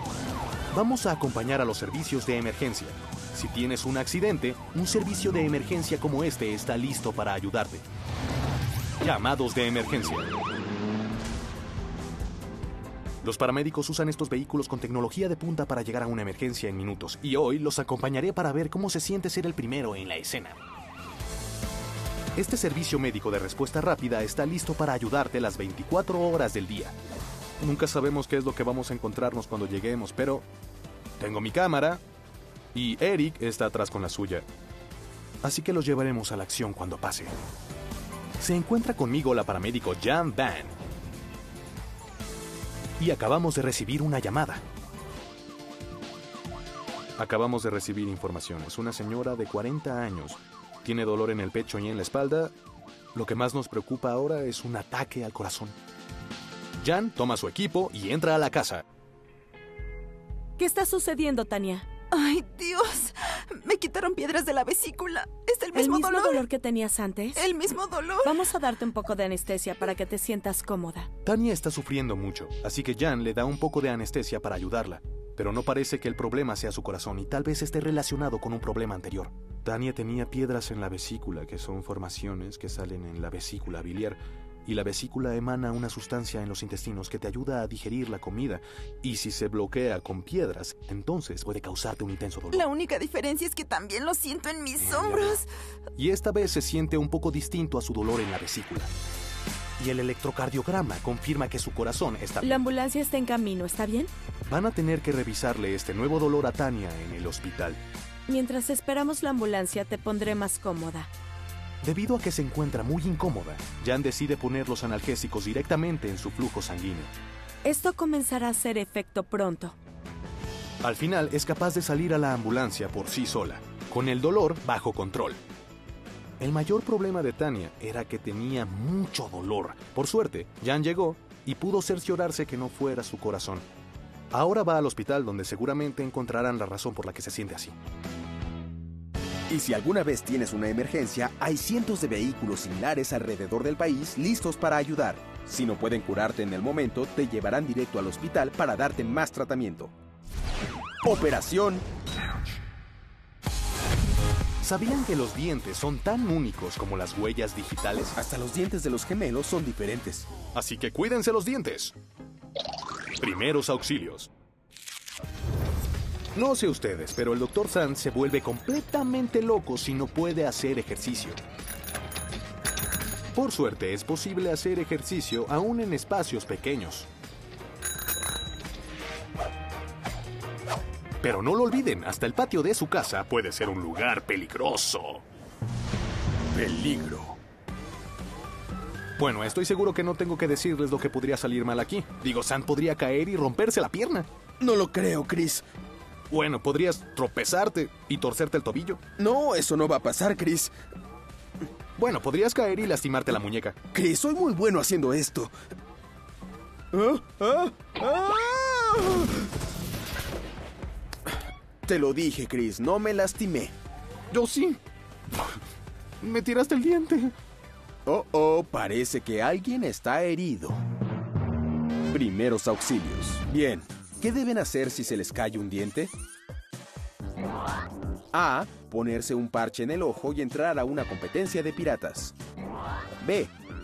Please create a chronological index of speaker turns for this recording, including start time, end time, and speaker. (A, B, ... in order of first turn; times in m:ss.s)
0:00.7-0:07.8 A
0:09.0-0:10.3 A
0:13.2-0:20.6 A
0:22.4-0:26.9 A
0:27.6-0:30.4 A
0:31.2-0:32.0 A
0:32.7-0:34.4 A
0:35.4-0:37.3 A
0:38.4-0:40.7 A
0:43.0-0:44.6 A
0:47.2-0:52.5 A
0:53.1-0:55.7 A
0:56.8-0:58.8 A
1:00.6-1:01.9 B
1:02.2-1:03.1 C
1:03.6-1:06.4 C
1:05.7-1:07.4 B
1:07.4-1:08.3 C
1:08.2-1:11.1 B
1:11.2-1:32.6 A
1:32.7-1:35.4 C
1:36.0-1:38.9 A
1:39.8-1:42.6 A
1:42.4-1:44.1 B
1:44.5-1:47.8 A
1:48.3-1:51.1 B
1:51.8-1:57.1 A
1:57.6-1:59.7 B
2:00.8-2:05.4 A
2:06.4-2:13.6 A
2:14.3-2:17.8 A
2:19.5-2:29.9 D
2:31.0-2:31.8 D
2:34.6-2:38.2 A
2:38.2-2:40.3 D
2:40.5-2:41.9 A
2:43.2-2:44.3 A
2:46.3-2:51.4 A
2:53.3-2:57.1 A
3:01.2-3:05.2 A
3:06.5-3:07.4 D
3:09.2-3:14.3 A
3:14.6-3:15.6 D
3:16.3-3:19.0 A
3:19.2-3:20.7 D
3:22.0-3:23.8 A
3:23.9-3:25.5 D
3:26.9-3:29.4 D
3:31.8-3:33.7 D
3:34.3-3:34.8 A
3:36.2-3:37.3 A
3:38.0-3:40.8 D
3:42.1-3:46.1 D
3:48.3-3:52.3 D
3:53.2-3:53.5 D